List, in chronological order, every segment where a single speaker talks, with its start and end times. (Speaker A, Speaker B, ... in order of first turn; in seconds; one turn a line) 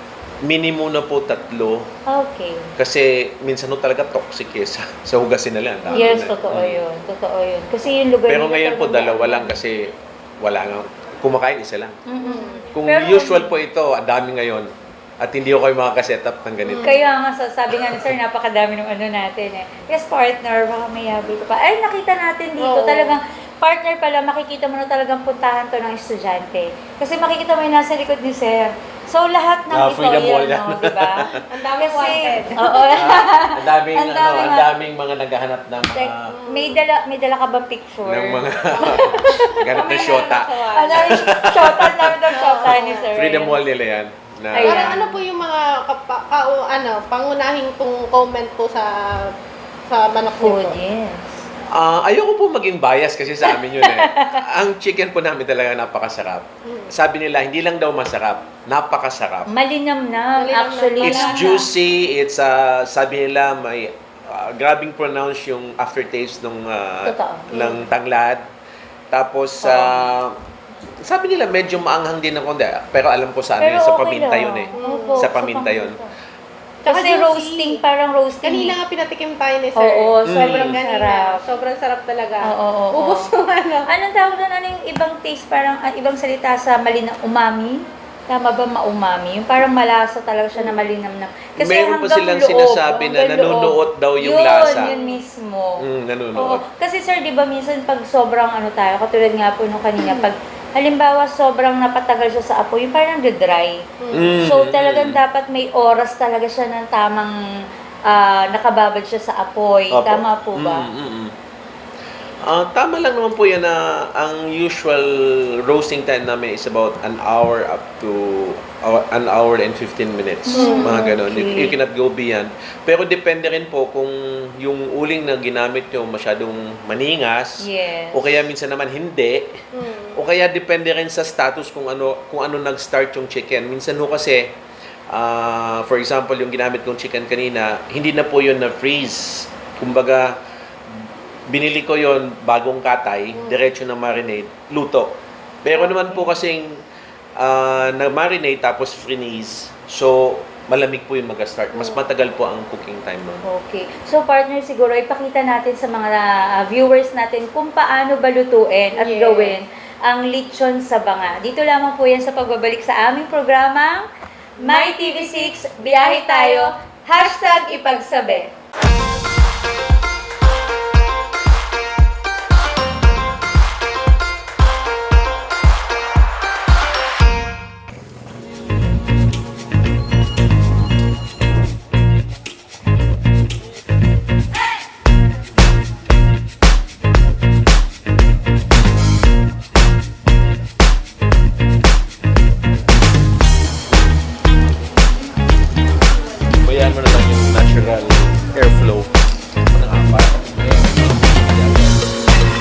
Speaker A: 0.4-1.9
Speaker B: 2.1-2.7
Speaker A: 2.8-6.8
Speaker C: 5.9-6.2
Speaker B: 5.9-9.6
Speaker A: 8.3-12.0
Speaker B: 12.1-13.5
Speaker C: 12.2-12.7
Speaker A: 12.7-16.9
Speaker C: 16.6-17.1
Speaker B: 16.8-34.7
Speaker C: 22.6-23.2
Speaker A: 29.7-31.4
Speaker C: 31.5-33.0
Speaker A: 32.9-36.4
Speaker B: 36.0-39.6
Speaker C: 36.3-36.8
Speaker A: 38.0-45.0
Speaker C: 38.9-41.0
Speaker B: 40.7-43.6
Speaker C: 42.3-43.1
Speaker B: 44.5-45.1
Speaker C: 44.6-49.3
Speaker C: 49.9-50.8
Speaker B: 50.4-51.4
Speaker A: 51.7-59.5
Speaker B: 53.5-54.4
Speaker C: 56.7-56.9
Speaker B: 59.5-61.7
Speaker C: 60.4-61.6
Speaker A: 61.0-68.5
Speaker B: 67.0-67.5
Speaker A: 69.1-70.4
Speaker A: 71.0-76.0
Speaker B: 73.6-76.1
Speaker C: 74.8-75.3
Speaker C: 76.9-77.8
Speaker B: 76.9-78.8
Speaker C: 78.4-83.9
Speaker B: 79.8-81.4
Speaker A: 80.3-80.8
Speaker B: 82.4-83.3
Speaker B: 83.9-95.8
Speaker C: 90.6-90.8
Speaker A: 91.6-94.9
Speaker C: 94.6-95.2
Speaker A: 95.8-96.6
Speaker B: 96.4-103.8
Speaker C: 100.0-100.3
Speaker C: 104.0-104.3
Speaker A: 104.1-105.2
Speaker B: 104.3-107.3
Speaker B: 108.1-110.9
Speaker A: 109.9-111.3
Speaker A: 112.5-129.6
Speaker B: 120.5-121.8
Speaker C: 120.5-121.0
Speaker B: 127.6-128.3
Speaker C: 129.7-130.2
Speaker A: 130.1-134.6
Speaker A: 135.1-140.4
Speaker A: 141.5-146.8
Speaker B: 145.8-146.3
Speaker A: 147.4-153.4
Speaker C: 151.8-152.0
Speaker B: 153.4-164.0
Speaker C: 159.0-159.6
Speaker B: 164.6-168.5
Speaker C: 164.6-167.6
Speaker A: 196.6-202.1